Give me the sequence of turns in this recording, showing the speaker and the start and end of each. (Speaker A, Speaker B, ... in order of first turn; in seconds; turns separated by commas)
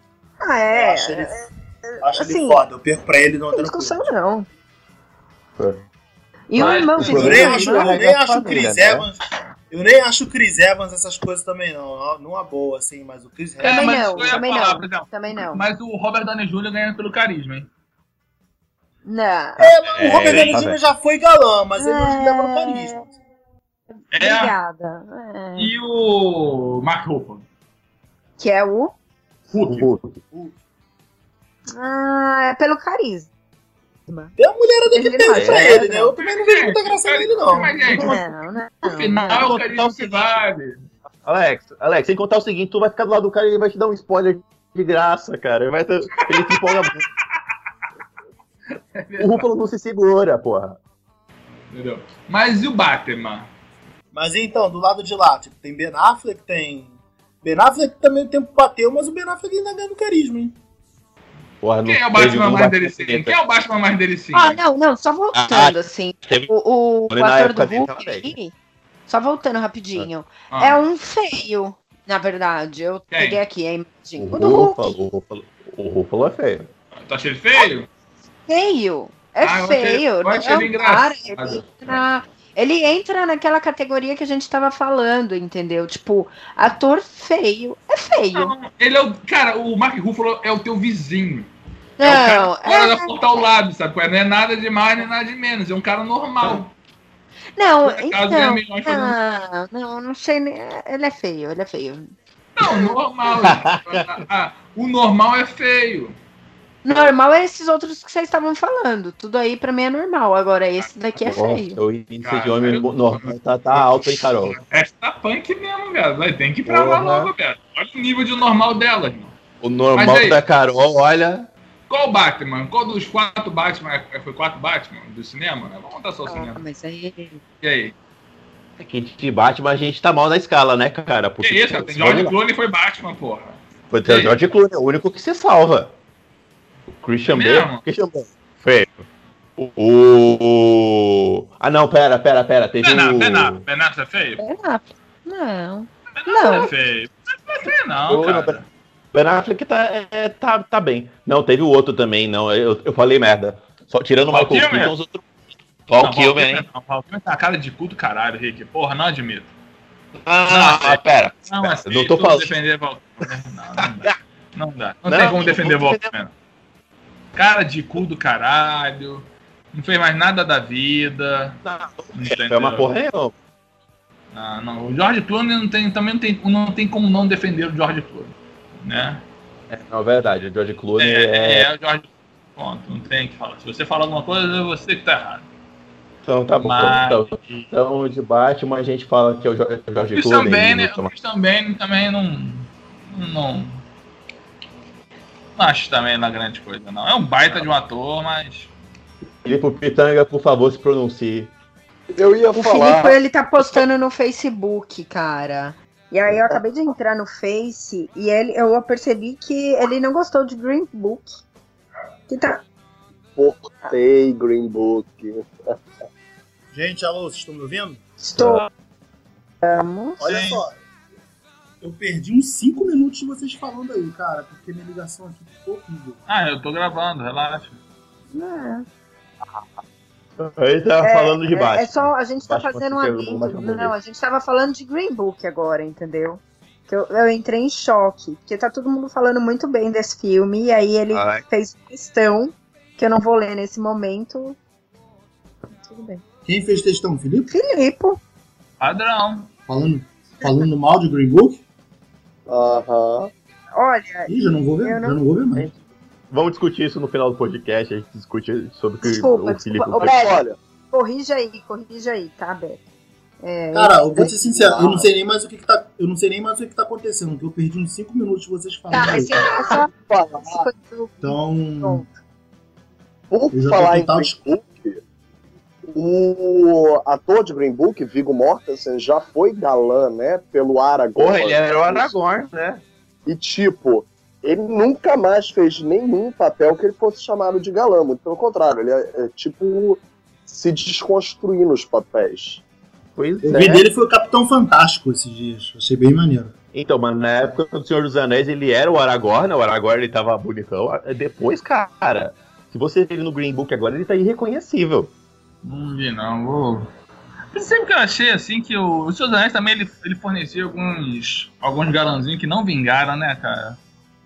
Speaker A: 0.4-2.6, Speaker B: 0.7-1.4, Speaker B: 2.0-4.1, Speaker A: 3.5-4.5, Speaker C: 5.6-5.8, Speaker A: 6.5-8.0, Speaker D: 6.5-7.4, Speaker C: 6.6-9.1, Speaker B: 7.0-14.4, Speaker D: 13.6-17.7, Speaker A: 13.6-15.6, Speaker A: 19.1-19.7, Speaker B: 19.6-23.1, Speaker C: 19.6-20.8, Speaker D: 20.0-20.6, Speaker A: 21.8-23.0, Speaker A: 24.0-25.7, Speaker D: 24.1-24.5, Speaker D: 25.6-27.5, Speaker A: 28.4-28.9, Speaker D: 29.5-29.9, Speaker C: 29.6-30.2, Speaker B: 30.3-30.6, Speaker A: 31.7-33.3, Speaker A: 34.1-34.3, Speaker B: 34.4-37.8, Speaker A: 34.9-36.1, Speaker C: 35.3-35.9, Speaker D: 36.1-38.2, Speaker C: 37.9-38.2, Speaker A: 37.9-39.6, Speaker D: 38.8-40.8, Speaker C: 39.3-40.6, Speaker C: 41.2-47.0, Speaker D: 46.2-47.0, Speaker D: 48.8-49.5, Speaker C: 49.2-50.8, Speaker D: 51.7-53.5, Speaker B: 54.1-60.6, Speaker C: 61.6-63.4, Speaker D: 61.9-64.6, Speaker A: 64.3-68.5, Speaker C: 65.3-66.5, Speaker C: 67.1-68.3, Speaker A: 69.1-75.0, Speaker D: 70.5-70.8, Speaker D: 73.1-73.4, Speaker C: 74.2-76.7, Speaker D: 77.0-77.9, Speaker A: 78.5-88.5, Speaker D: 79.4-82.0, Speaker D: 88.3-96.7, Speaker A: 92.0-93.4, Speaker A: 97.6-102.1, Speaker D: 97.8-99.2, Speaker D: 102.6-106.2, Speaker A: 102.7-103.0, Speaker C: 103.3-104.2, Speaker A: 106.8-111.8, Speaker C: 111.2-114.6, Speaker D: 112.2-119.4, Speaker C: 116.7-117.3, Speaker C: 119.6-121.5, Speaker D: 120.0-120.4, Speaker D: 121.9-126.6, Speaker A: 126.3-127.4, Speaker D: 127.6-128.0, Speaker C: 128.8-132.3, Speaker D: 131.4-134.4, Speaker C: 133.9-135.9, Speaker C: 136.9-139.1, Speaker D: 137.3-137.8, Speaker C: 139.6-143.6, Speaker D: 142.8-144.4, Speaker A: 144.4-146.7, Speaker D: 146.2-148.7, Speaker C: 148.1-148.6, Speaker C: 149.1-155.3, Speaker D: 154.3-154.9, Speaker C: 155.9-156.7, Speaker D: 156.0-159.5, Speaker C: 160.2-162.5, Speaker D: 160.5-166.3, Speaker C: 163.2-164.1, Speaker C: 165.1-166.1, Speaker D: 167.3-171.6, Speaker C: 171.6-173.4, Speaker D: 172.1-172.9, Speaker D: 174.3-179.2, Speaker C: 179.7-181.7, Speaker D: 181.0-185.5, Speaker C: 186.2-191.1, Speaker D: 186.6-187.7, Speaker D: 190.1-193.8, Speaker D: 195.6-198.7, Speaker C: 199.4-201.5, Speaker E: 202.1-203.2, Speaker A: 202.6-211.4, Speaker A: 212.3-212.6, Speaker E: 213.4-215.8, Speaker B: 216.7-218.0, Speaker A: 218.2-218.7, Speaker C: 218.4-218.7, Speaker A: 219.6-220.2, Speaker B: 220.2-220.8, Speaker D: 220.2-220.6, Speaker B: 221.8-226.2, Speaker D: 226.3-227.8, Speaker A: 228.3-228.9, Speaker C: 230.4-233.9, Speaker A: 231.0-244.6, Speaker C: 241.1-241.4, Speaker A: 245.7-246.2, Speaker B: 246.5-247.5, Speaker A: 247.5-248.2, Speaker D: 248.8-249.5, Speaker B: 249.7-251.6, Speaker E: 252.5-253.3, Speaker A: 253.7-255.2, Speaker B: 254.3-255.7, Speaker C: 255.6-260.1, Speaker A: 259.0-260.4, Speaker E: 260.0-260.6, Speaker A: 260.9-262.8, Speaker A: 263.4-264.3, Speaker B: 263.7-269.4, Speaker E: 264.2-265.1, Speaker A: 268.9-272.1, Speaker E: 269.7-270.7, Speaker B: 271.2-272.1, Speaker E: 273.3-275.0, Speaker B: 273.5-274.4, Speaker E: 275.9-282.1, Speaker C: 281.2-282.8, Speaker E: 283.3-292.6, Speaker C: 293.2-293.9, Speaker B: 293.4-296.6, Speaker C: 296.7-305.1, Speaker D: 305.6-306.9, Speaker D: 307.5-313.8